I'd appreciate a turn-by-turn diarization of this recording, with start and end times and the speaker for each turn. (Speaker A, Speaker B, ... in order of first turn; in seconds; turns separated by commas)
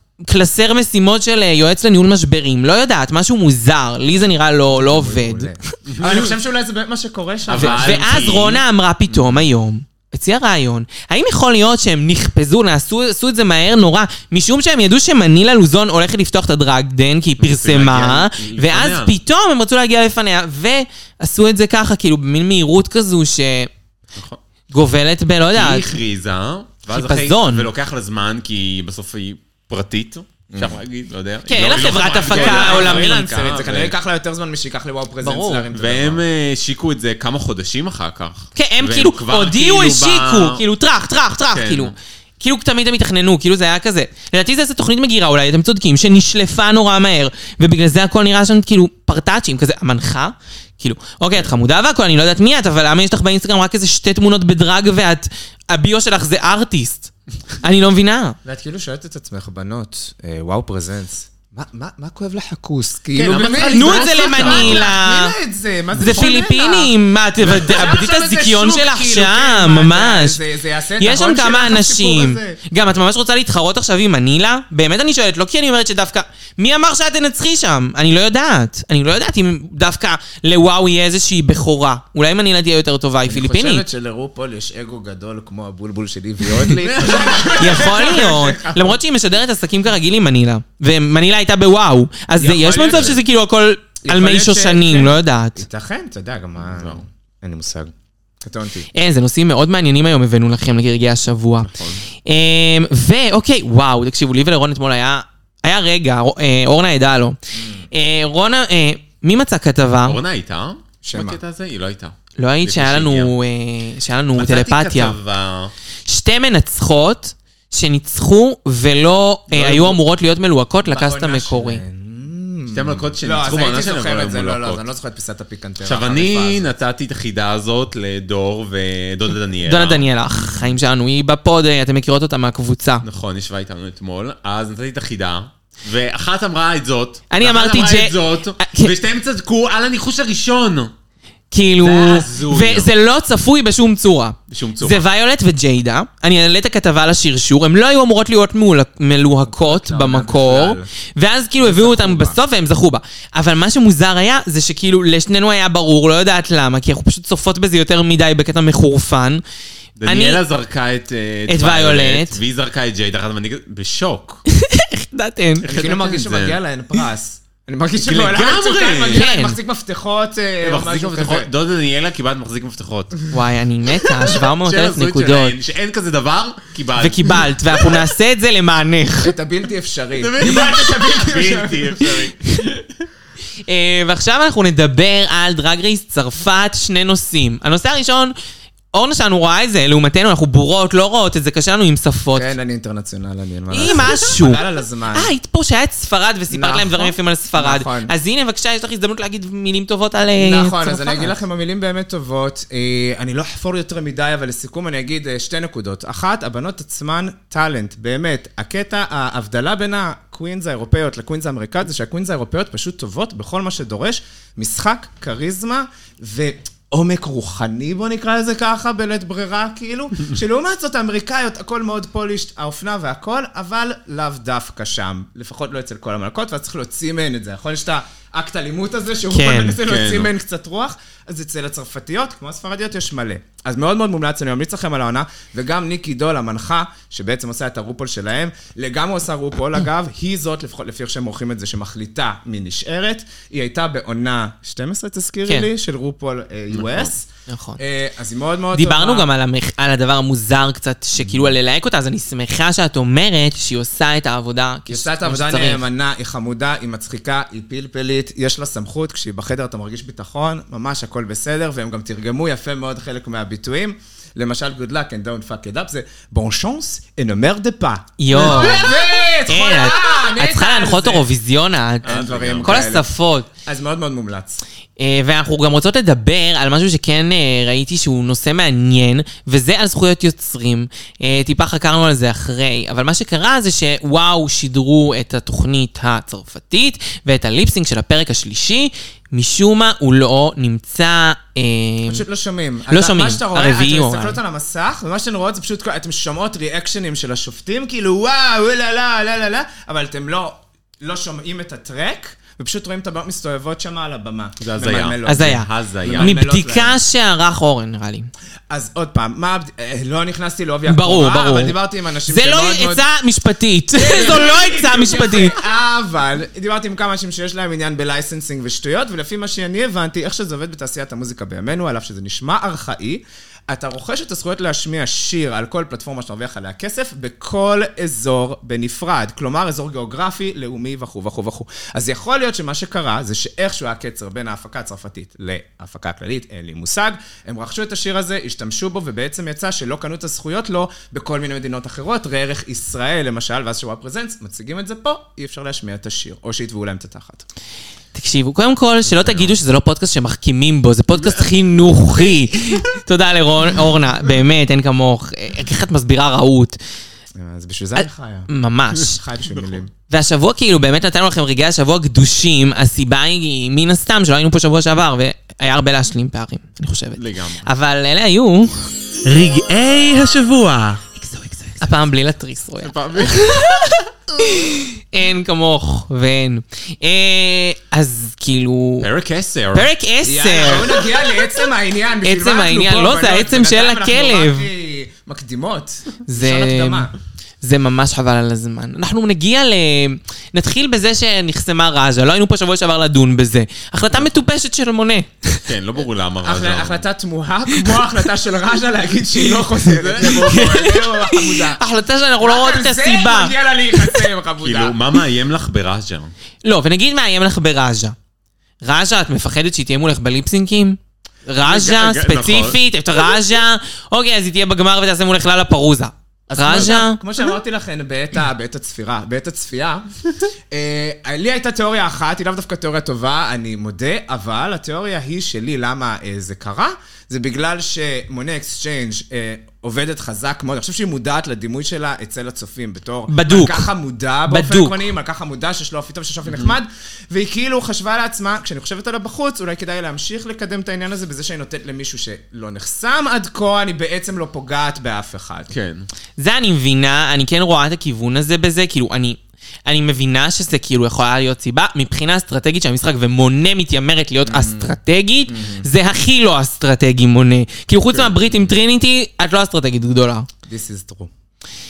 Speaker A: 0.2-5.7, Speaker B: 4.7-8.5, Speaker C: 5.9-6.3, Speaker C: 7.5-9.4, Speaker A: 7.5-23.7, Speaker C: 17.4-19.1, Speaker A: 24.7-25.9, Speaker C: 25.5-33.9, Speaker A: 26.9-27.7, Speaker B: 30.5-30.8, Speaker A: 31.5-33.3, Speaker B: 32.1-36.2, Speaker A: 35.2-35.6, Speaker C: 35.7-40.6, Speaker A: 38.5-58.4, Speaker C: 41.5-41.9, Speaker B: 58.4-72.6, Speaker C: 63.1-64.9, Speaker A: 63.6-65.4, Speaker A: 65.9-70.4, Speaker A: 71.0-83.8, Speaker B: 83.3-89.0, Speaker C: 86.8-88.0, Speaker A: 87.5-95.6, Speaker B: 92.4-93.2, Speaker B: 94.0-98.9, Speaker C: 96.8-97.0, Speaker A: 98.9-101.7, Speaker C: 101.7-102.0, Speaker A: 102.2-107.4, Speaker B: 107.5-107.9, Speaker A: 107.9-110.2, Speaker C: 110.0-113.3, Speaker B: 111.0-111.4, Speaker A: 112.4-115.2, Speaker C: 114.4-115.7, Speaker A: 116.0-121.8, Speaker B: 119.6-120.0, Speaker B: 120.9-126.7, Speaker C: 122.7-124.8, Speaker C: 125.8-130.1, Speaker A: 129.6-133.0, Speaker C: 133.0-140.9, Speaker A: 137.3-138.9, Speaker A: 141.5-159.4, Speaker C: 141.8-142.9, Speaker C: 144.5-145.0, Speaker B: 149.5-150.9, Speaker B: 151.6-152.4, Speaker C: 160.0-164.4, Speaker A: 160.0-160.4, Speaker A: 161.5-162.4, Speaker A: 164.5-165.7, Speaker C: 165.6-166.6, Speaker B: 165.6-171.5, Speaker C: 168.0-169.3, Speaker A: 169.1-169.6, Speaker C: 170.6-173.3, Speaker A: 173.3-175.6, Speaker C: 174.0-177.9, Speaker A: 177.0-179.3, Speaker B: 179.2-182.3, Speaker C: 180.2-182.8, Speaker A: 183.7-188.3, Speaker A: 188.9-192.5, Speaker B: 192.3-195.3, Speaker A: 193.7-201.3, Speaker B: 196.5-198.1, Speaker B: 200.4-249.3, Speaker A: 229.3-229.8, Speaker C: 229.8-230.3, Speaker C: 246.7-247.1, Speaker A: 247.5-247.8, Speaker A: 248.7-255.8, Speaker B: 254.9-271.2, Speaker A: 268.2-268.9, Speaker A: 269.4-273.5, Speaker C: 272.0-272.8, Speaker B: 272.0-273.1, Speaker B: 273.6-274.6, Speaker A: 275.0-292.2, Speaker B: 292.1-307.0, Speaker A: 292.9-294.4, Speaker C: 304.6-306.3, Speaker A: 305.2-308.3, Speaker B: 308.7-313.0, Speaker A: 310.9-315.6, Speaker B: 313.9-347.4, Speaker A: 348.1-356.8, Speaker C: 349.1-349.4, Speaker B: 357.4-358.5, Speaker A: 357.9-359.2, Speaker B: 359.0-359.9, Speaker A: 360.1-379.1, Speaker C: 367.1-367.7, Speaker C: 372.8-373.9, Speaker C: 379.0-379.9, Speaker A: 379.7-381.3, Speaker B: 380.2-387.1, Speaker A: 382.2-384.7, Speaker A: 386.3-387.1, Speaker A: 387.6-395.6, Speaker C: 395.6-397.0, Speaker B: 396.4-401.8, Speaker C: 399.9-400.7, Speaker A: 400.2-404.2, Speaker B: 402.4-405.2, Speaker C: 404.6-406.3, Speaker A: 406.6-408.1, Speaker A: 408.8-417.2, Speaker C: 411.6-412.8, Speaker B: 416.5-420.1, Speaker B: 420.7-445.7, Speaker A: 433.3-433.9, Speaker A: 434.5-435.0, Speaker C: 445.7-446.1, Speaker A: 446.4-460.5, Speaker B: 454.4-454.9, Speaker B: 455.5-455.9, Speaker C: 458.1-458.6, Speaker B: 460.6-461.3